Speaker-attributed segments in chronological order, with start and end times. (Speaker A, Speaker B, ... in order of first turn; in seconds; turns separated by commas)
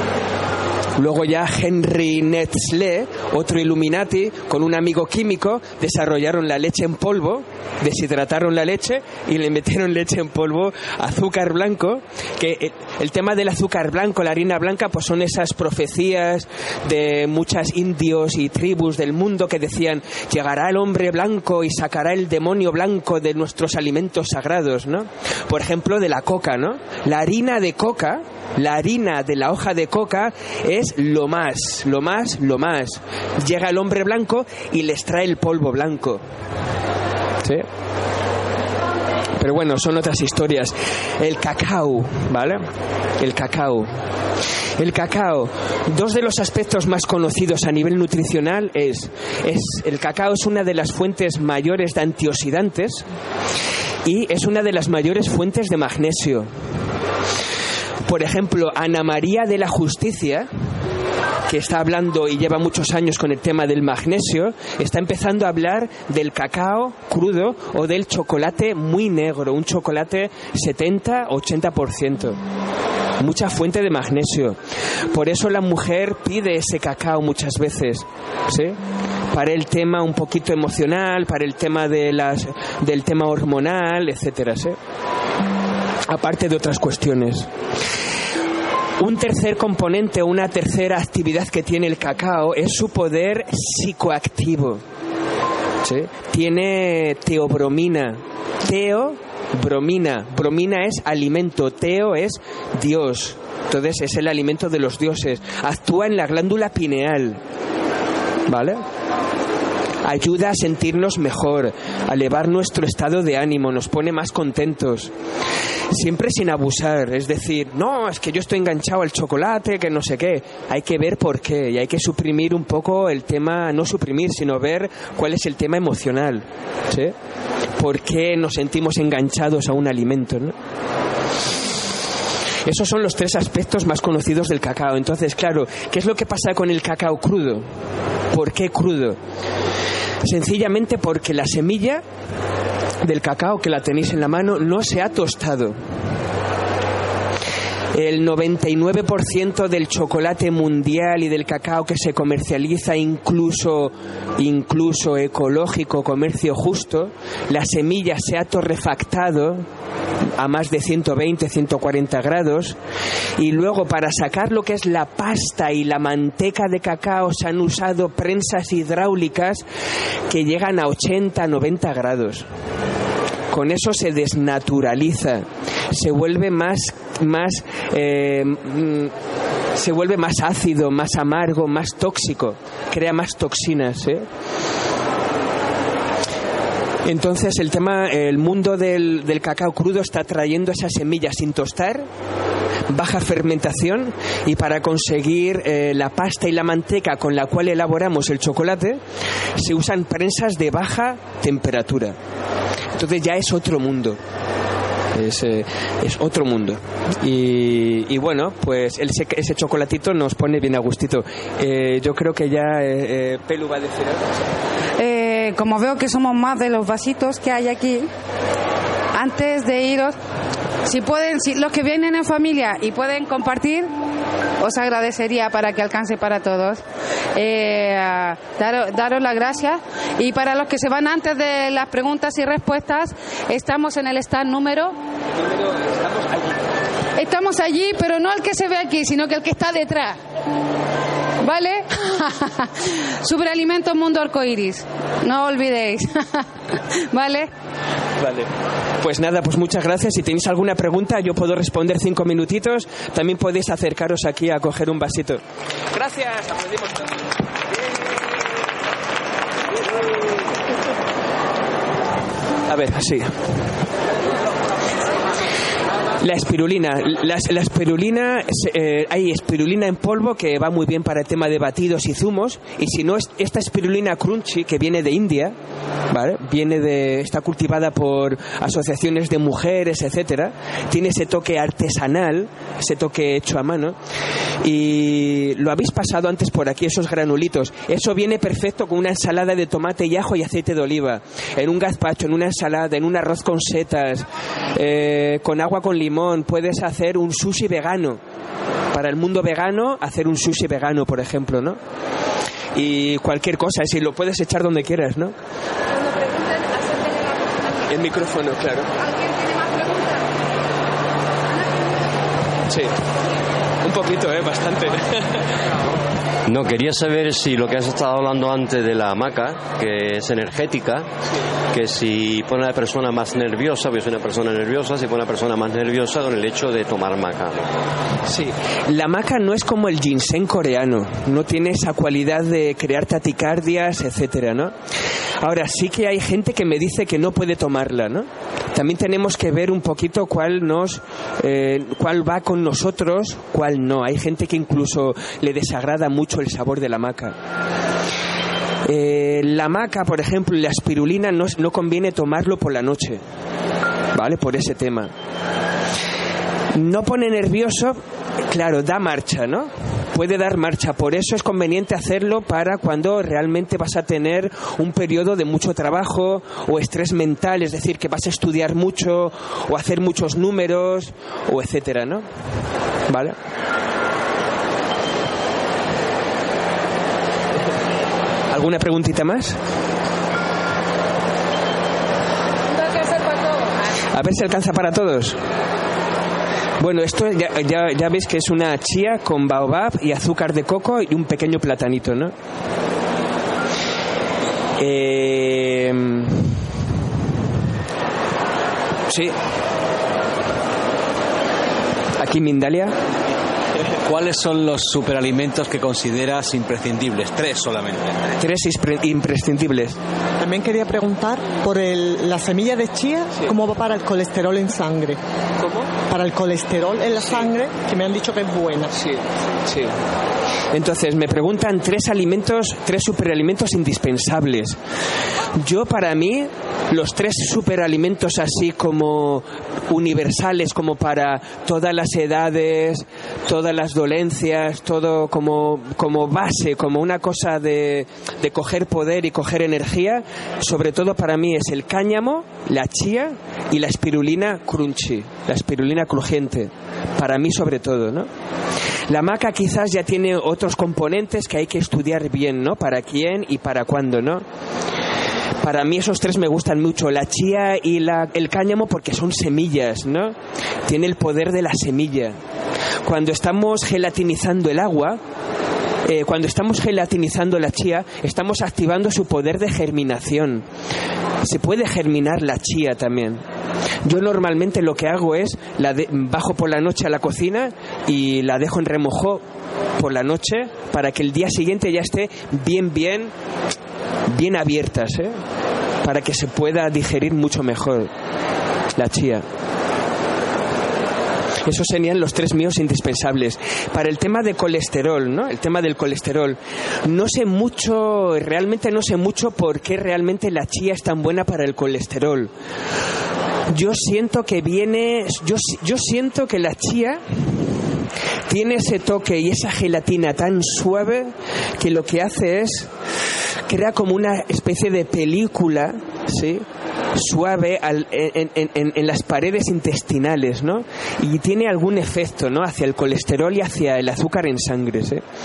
Speaker A: 1.0-36.2, Speaker A: 39.4-42.6, Speaker A: 43.2-43.9, Speaker A: 44.8-53.0, Speaker A: 54.0-56.5, Speaker A: 58.0-60.5, Speaker A: 61.5-72.4, Speaker A: 73.2-74.6, Speaker A: 75.1-78.8, Speaker A: 79.3-84.8, Speaker A: 86.1-87.5, Speaker A: 89.0-94.8, Speaker A: 95.8-107.4, Speaker A: 108.5-108.8, Speaker A: 110.0-115.1, Speaker A: 115.9-127.1, Speaker A: 127.8-130.5, Speaker A: 132.6-137.7, Speaker A: 138.3-139.2, Speaker A: 140.2-142.0, Speaker A: 143.0-145.8, Speaker A: 147.9-159.7, Speaker A: 160.4-162.8, Speaker A: 163.4-169.6, Speaker A: 170.3-172.5, Speaker A: 173.5-179.1, Speaker A: 179.8-184.2, Speaker A: 187.0-192.1, Speaker A: 192.9-199.0, Speaker A: 199.6-202.2, Speaker A: 203.0-204.2, Speaker A: 205.1-214.2, Speaker B: 215.0-218.1, Speaker B: 219.1-220.2, Speaker B: 220.8-223.9, Speaker B: 224.6-226.8, Speaker B: 227.3-234.9, Speaker A: 235.4-236.6, Speaker B: 237.2-240.2, Speaker B: 241.4-247.5, Speaker A: 248.2-248.5, Speaker A: 249.0-255.4, Speaker A: 255.9-257.1, Speaker A: 262.7-263.3, Speaker A: 266.2-275.5, Speaker A: 276.1-283.9, Speaker A: 284.6-298.2, Speaker A: 298.9-301.8, Speaker A: 302.7-305.3, Speaker B: 306.0-307.6, Speaker A: 307.9-308.9, Speaker B: 309.0-310.2, Speaker A: 312.7-312.9, Speaker A: 313.8-315.2, Speaker C: 316.4-321.1, Speaker C: 321.7-327.7, Speaker A: 328.3-334.7, Speaker A: 335.4-347.4, Speaker A: 348.8-353.2, Speaker A: 354.1-355.1, Speaker A: 356.7-372.2, Speaker A: 373.1-373.3, Speaker A: 378.5-379.6, Speaker B: 382.8-383.7, Speaker A: 384.1-385.4, Speaker A: 386.8-392.3, Speaker A: 394.8-396.6, Speaker A: 399.1-399.3, Speaker A: 402.2-402.9, Speaker D: 404.1-408.2, Speaker A: 408.4-410.0, Speaker E: 410.4-415.2, Speaker A: 415.6-415.9, Speaker E: 416.1-418.9, Speaker A: 418.9-419.9, Speaker A: 420.7-424.8, Speaker A: 425.6-448.3, Speaker A: 449.1-454.4, Speaker A: 455.6-460.3, Speaker A: 460.9-462.4, Speaker A: 463.0-465.2, Speaker A: 466.0-470.6, Speaker A: 471.4-473.4, Speaker A: 474.0-479.4, Speaker A: 480.0-483.3, Speaker A: 484.3-485.3, Speaker A: 486.0-488.1, Speaker A: 488.9-489.4, Speaker A: 491.6-502.5, Speaker A: 503.7-507.2, Speaker A: 508.5-512.9, Speaker A: 513.7-525.2